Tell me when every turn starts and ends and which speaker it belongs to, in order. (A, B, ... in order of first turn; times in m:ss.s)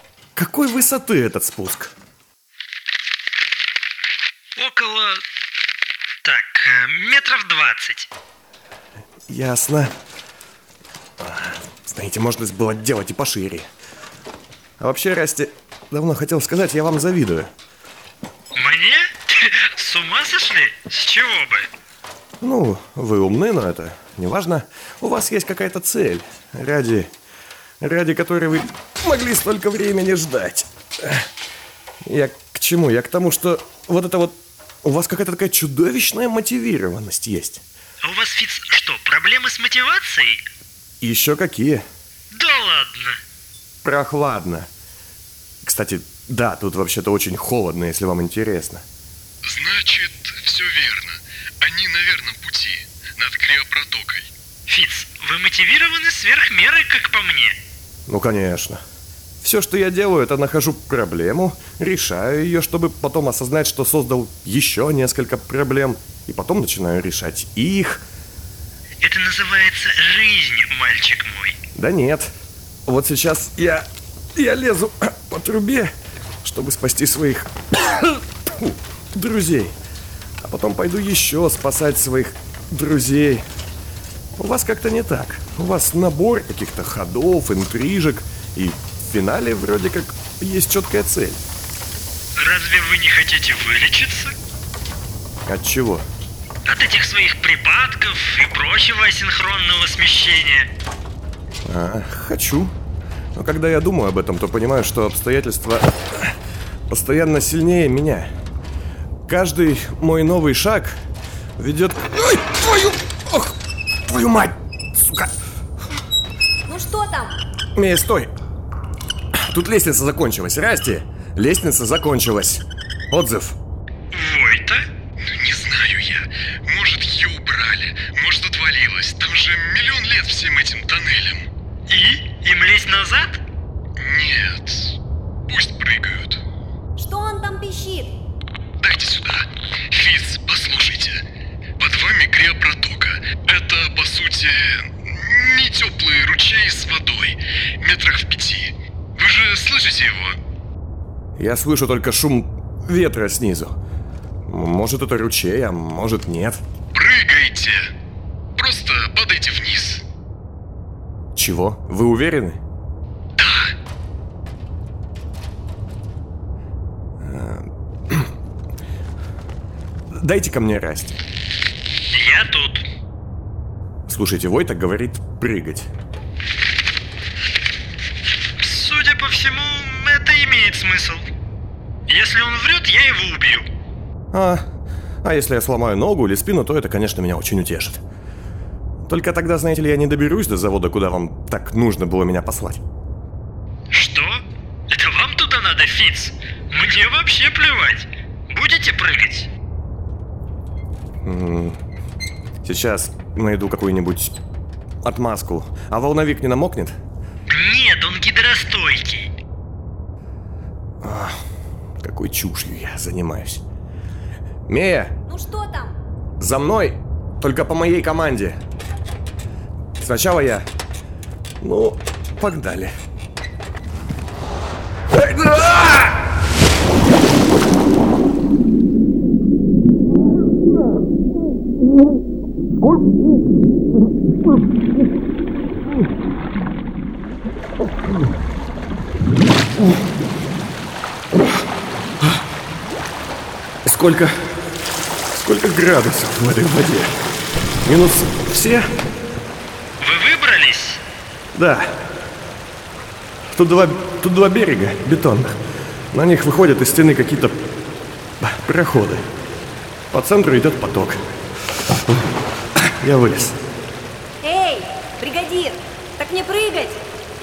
0:00.4-0:01.9 A
0:04.6-0:05.2 B
0:06.2-0:08.1 B
0:09.3-0:09.9 A
0:11.2-0:13.7 A
0:14.8-0:17.5 A
0:18.6-0:21.7 B
0:22.4-0:27.1 A
0:27.8-0:31.3 A
0:32.0-0:37.6 A
0:38.0-0:40.4 B
0:41.0-0:41.8 A
0:42.3-0:43.2 B
0:43.8-0:44.7 A
0:45.6-0:48.8 A
0:49.4-0:54.3 C
0:54.7-0:57.6 B
0:58.1-0:58.8 A
0:59.4-1:08.0 A
1:09.0-1:11.6 B
1:11.8-1:12.3 A
1:12.9-1:19.8 A
1:20.4-1:23.4 A
1:24.4-1:31.4 A
1:32.4-1:34.3 B
1:35.5-1:36.0 A
1:36.6-1:40.7 B
1:41.6-1:42.7 A
1:43.4-1:46.4 A
1:46.9-1:48.3 A
1:49.3-1:51.0 A
1:51.6-1:53.6 A
1:54.1-1:55.3 A
1:56.7-1:57.4 D
1:57.8-1:58.3 A
1:59.4-2:03.6 A
2:04.1-2:04.8 B
2:05.2-2:11.5 C
2:11.9-2:13.4 B
2:14.0-2:15.0 C
2:15.5-2:16.4 C
2:17.0-2:18.2 D
2:18.8-2:21.2 C
2:21.8-2:30.4 C
2:31.4-2:33.8 A
2:34.5-2:36.6 A
2:36.9-2:37.9 C
2:38.6-2:40.0 C
2:41.4-2:42.6 A
2:43.4-2:43.7 C
2:47.2-2:48.3 A
2:50.1-2:51.1 A
2:52.1-2:52.8 B
2:54.1-2:55.9 A
2:58.6-3:01.2 B
3:02.1-3:03.7 B
3:04.3-3:04.6 A
3:05.2-3:08.0 A
3:09.1-3:12.8 A
3:13.9-3:19.5 B
3:21.2-3:21.8 A
3:22.6-3:24.4 A
3:25.0-3:27.0 A
3:27.5-3:29.3 B
3:31.0-3:31.4 A
3:32.0-3:33.6 A
3:34.7-3:35.2 A
3:35.3-3:36.0 D
3:36.4-3:38.6 A
3:40.0-3:40.7 A
3:41.6-3:42.9 A
3:45.1-3:46.2 A
4:03.8-4:04.4 A
4:05.3-4:07.1 A
4:07.8-4:08.9 A
4:10.0-4:11.0 B
4:11.5-4:12.0 A
4:13.5-4:15.6 A
4:16.1-4:17.6 A
4:18.4-4:19.2 A
4:20.1-4:21.2 A
4:22.9-4:23.6 A
4:24.4-4:27.0 D